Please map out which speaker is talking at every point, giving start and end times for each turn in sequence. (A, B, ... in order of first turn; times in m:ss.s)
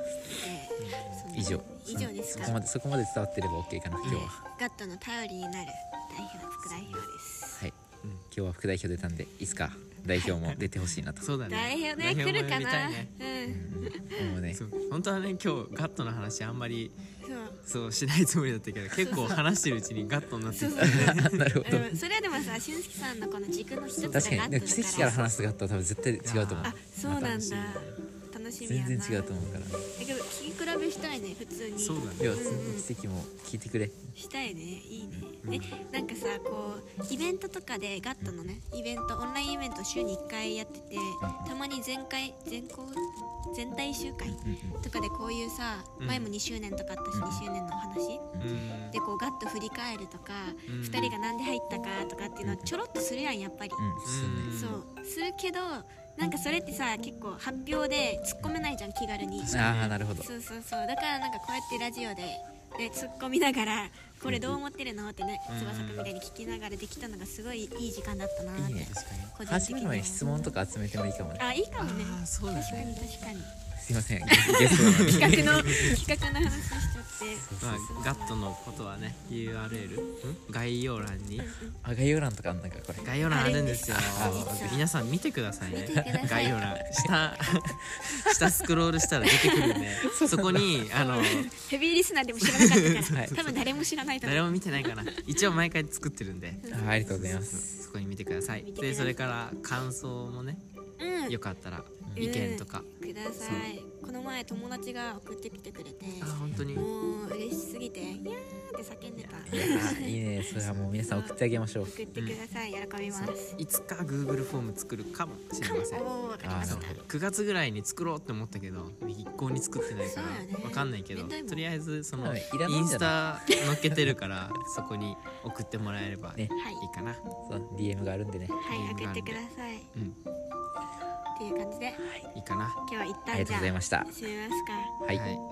0:00.4-0:02.6 A
0:00.8-0:01.2 B
0:01.3-0:04.4 C
0:04.0-0:07.6 A
0:04.0-0:04.3 B
0:06.8-0:07.0 B
0:08.3-0:11.3 C
0:10.3-0:13.1 B
0:11.5-0:14.3 A
0:13.5-0:14.6 C
0:14.5-0:17.0 B
0:17.2-0:17.6 A
0:17.6-0:21.8 B
0:19.0-0:19.4 A
0:20.5-0:25.2 A
0:20.8-0:21.9 C
0:24.0-0:25.5 B
0:24.1-0:27.5 C
0:26.2-0:27.9 B
0:26.6-0:29.4 A
0:28.6-0:29.8 C
0:29.9-0:32.8 A
0:31.8-0:32.4 B
0:32.2-0:34.0 C
0:34.1-0:48.3 A
0:35.4-0:35.7 B
0:41.2-0:41.5 C
0:44.3-0:44.8 C
0:46.0-0:46.3 B
0:47.1-0:47.4 C
0:48.3-0:48.6 C
0:48.4-0:49.0 B
0:48.9-0:53.8 A
0:50.7-0:51.2 B
0:52.4-0:52.7 C
0:53.8-0:54.5 C
0:54.0-0:54.8 B
0:54.5-0:59.6 A
0:59.4-0:59.9 B
0:59.5-1:00.3 C
1:00.2-1:10.5 A
1:04.2-1:04.6 C
1:05.5-1:06.1 B
1:08.6-1:11.4 C
1:08.9-1:09.3 B
1:11.4-1:13.5 A
1:11.8-1:13.1 B
1:13.8-1:16.7 C
1:14.3-1:18.4 A
1:14.5-1:16.0 B
1:17.4-1:17.9 C
1:17.6-1:21.5 B
1:21.4-1:21.8 A
1:21.8-1:23.1 C
1:23.0-1:31.5 B
1:23.3-1:24.9 A
1:24.1-1:24.6 C
1:25.7-1:26.6 A
1:25.9-1:28.6 C
1:29.2-1:30.1 A
1:30.0-1:30.8 C
1:30.9-1:35.2 A
1:32.4-1:40.6 B
1:36.6-1:37.4 A
1:36.7-1:37.7 C
1:38.6-1:39.2 A
1:41.0-1:41.4 A
1:41.3-1:42.9 B
1:42.2-1:53.6 A
1:46.2-1:46.9 B
1:46.5-1:46.9 C
1:49.2-1:49.9 B
1:49.4-1:52.0 C
1:50.6-1:50.9 B
1:53.1-1:56.1 B
1:55.6-1:56.9 A
1:56.4-1:57.0 C
1:56.6-2:07.2 B
2:00.0-2:01.6 A
2:02.2-2:03.2 C
2:06.6-2:06.8 A
2:07.4-2:08.6 C
2:08.5-2:09.9 A
2:08.7-2:09.4 B
2:11.4-2:12.1 A
2:12.3-2:12.8 B
2:12.8-2:14.9 A
2:13.3-2:14.1 C
2:15.1-2:15.4 B